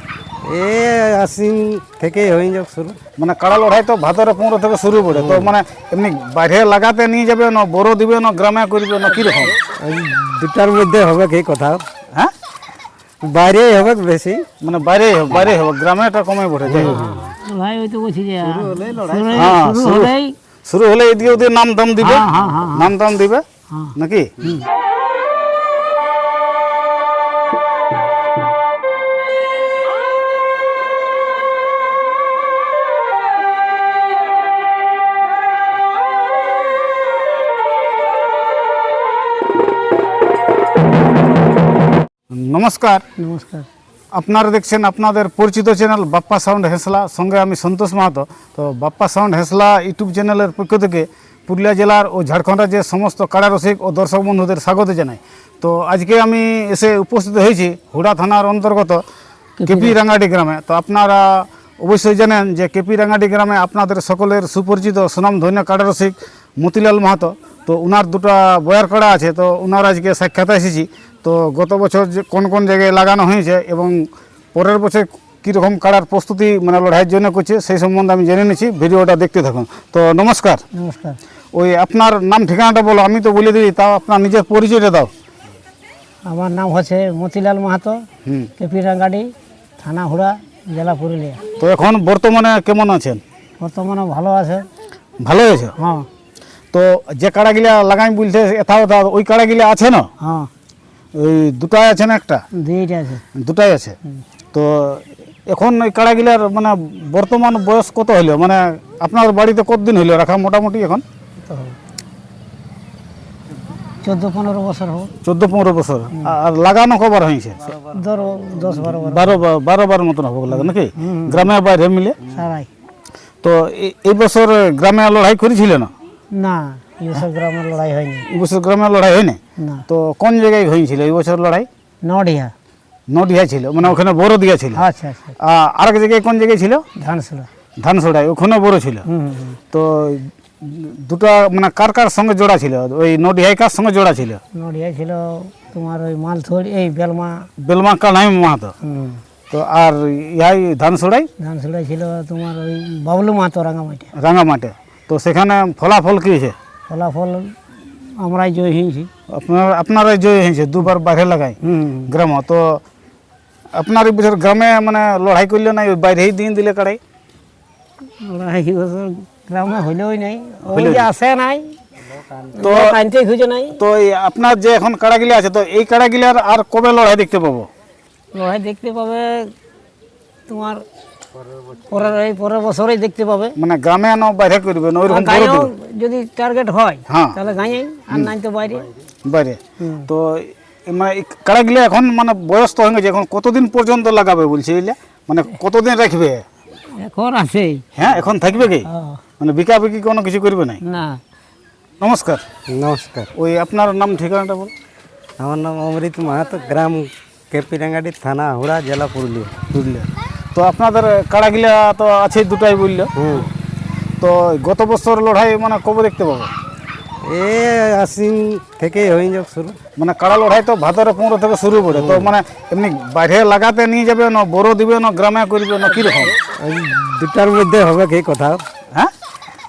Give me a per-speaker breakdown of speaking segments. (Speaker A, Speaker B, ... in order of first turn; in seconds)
Speaker A: 0.4-3.0, 5.1-5.5, 9.7-11.8, 13.2-14.4, 15.3-15.5, 16.6-17.3, 18.4-19.6, 202.7-203.3, 205.4-209.6, 213.2-213.5, 217.2-219.8, 221.9-222.3, 226.4-228.6
Speaker B: 3.2-9.6, 14.6-17.1, 19.3-20.1, 20.6-23.4, 23.9-24.3, 42.3-43.0, 44.1-59.0, 59.6-80.6, 81.5-85.1, 88.2-88.5, 91.6-93.2, 95.2-95.7, 96.7-100.1, 101.2-102.4, 103.3-104.0, 104.5-111.0, 115.2-117.7, 118.8-122.3, 123.4-125.9, 128.3-131.7, 133.1-134.8, 135.4-136.8, 137.8-139.1, 139.7-144.4, 147.6-148.7, 149.5-151.3, 154.1-156.6, 159.3-162.8, 163.7-167.0, 170.7-171.1, 172.6-173.0, 173.8-177.7, 183.6-185.7, 187.1-187.4, 189.2-196.4, 197.9-198.9, 199.4-200.8, 202.0-202.4, 203.3-204.7, 209.7-213.1, 214.2-216.5, 220.0-226.4
Speaker C: 17.3-20.3, 22.1-22.7, 43.2-43.7, 59.6-60.0, 80.7-81.2, 86.3-88.0, 88.6-89.3, 89.8-91.4, 93.6-94.7, 95.8-96.1, 100.2-100.5, 102.6-103.2, 111.5-111.8, 114.0-115.1, 117.9-119.4, 120.6-121.5, 122.3-122.7, 126.4-128.2, 129.6-129.8, 132.0-132.5, 134.8-135.3, 137.0-137.5, 139.1-139.6, 144.5-147.4, 148.8-149.2, 151.4-154.1, 156.9-159.1, 161.6-162.1, 168.2-171.7, 172.6-173.8, 178.3-179.5, 180.5-180.8, 181.9-183.6, 185.0-188.9, 189.8-190.1, 197.0-197.8, 198.8-199.2, 200.8-201.2